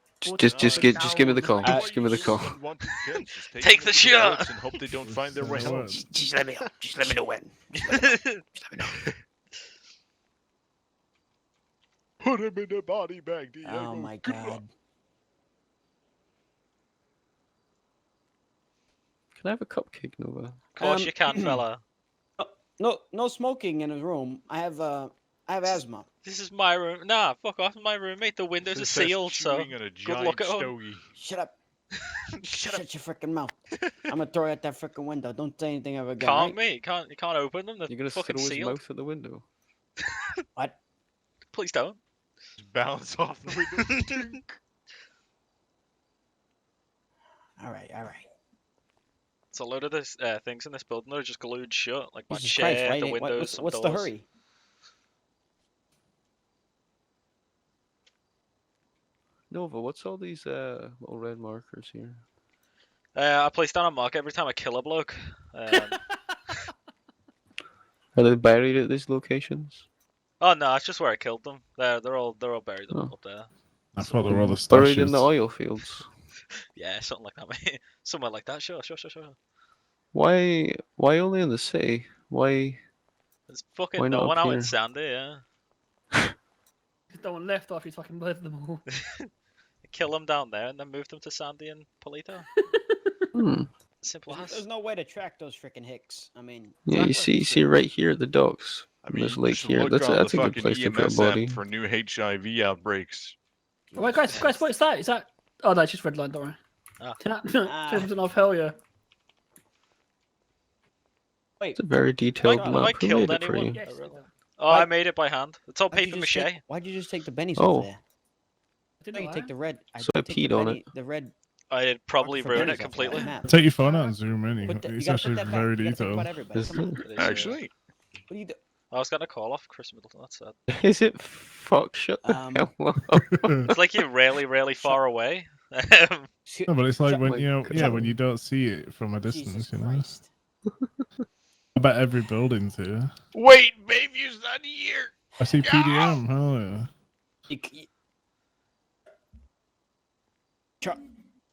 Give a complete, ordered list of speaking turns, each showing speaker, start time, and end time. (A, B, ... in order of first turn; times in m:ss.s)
0:00.2-0:02.6 A
0:00.2-0:01.7 B
0:00.4-0:06.1 C
0:01.6-0:02.4 D
0:03.6-0:04.5 E
0:04.9-0:06.1 F
0:06.1-0:08.1 D
0:07.7-0:08.4 E
0:12.2-0:14.6 C
0:13.6-0:14.7 D
0:19.4-0:20.6 A
0:20.8-0:21.8 E
0:20.8-0:21.6 D
0:22.4-0:26.1 D
0:26.2-0:30.7 E
0:28.6-0:31.1 C
0:31.2-0:31.6 D
0:32.5-0:32.8 E
0:32.6-0:33.6 D
0:34.1-0:36.6 D
0:36.2-0:38.8 E
0:37.9-0:39.4 A
0:41.5-0:42.0 E
0:42.6-0:44.6 C
0:47.6-0:48.3 D
0:49.5-0:54.1 E
0:52.3-0:54.2 D
0:59.5-1:02.2 A
1:03.2-1:06.0 E
1:08.2-1:09.9 A
1:10.4-1:13.5 E
1:13.9-1:15.3 F
1:14.2-1:16.1 A
1:16.8-1:19.4 E
1:20.1-1:22.8 A
1:23.5-1:25.4 E
1:24.0-1:24.7 A
1:27.1-1:28.8 B
1:29.8-1:32.5 E
1:33.3-1:33.7 A
1:34.0-1:34.6 E
1:34.3-1:36.8 D
1:36.9-1:41.6 A
1:39.0-1:43.4 C
1:43.9-1:44.7 D
1:44.0-1:46.6 B
1:47.2-1:48.8 B
1:47.7-1:48.1 D
1:51.8-1:53.8 A
1:52.4-1:56.6 E
1:52.4-1:53.0 D
1:53.7-1:54.3 B
1:55.9-1:58.0 D
1:57.6-1:57.9 A
1:59.0-1:59.5 B
1:59.1-2:01.3 D
2:00.0-2:00.9 A
2:01.7-2:03.3 E
2:02.2-2:03.6 D
2:03.4-2:06.4 F
2:03.8-2:04.1 B
2:04.6-2:07.4 D
2:06.5-2:07.0 A
2:07.0-2:07.6 E
2:07.2-2:07.7 C
2:08.3-2:08.6 D
2:08.9-2:10.6 E
2:10.7-2:13.8 A
2:12.2-2:12.7 D
2:13.2-2:13.7 F
2:13.7-2:16.3 E
2:16.5-2:18.1 D
2:16.7-2:20.2 F
2:17.2-2:18.1 A
2:19.2-2:20.3 D
2:21.8-2:23.1 F
2:23.3-2:26.2 C
2:25.4-2:26.9 F
2:27.5-2:27.9 D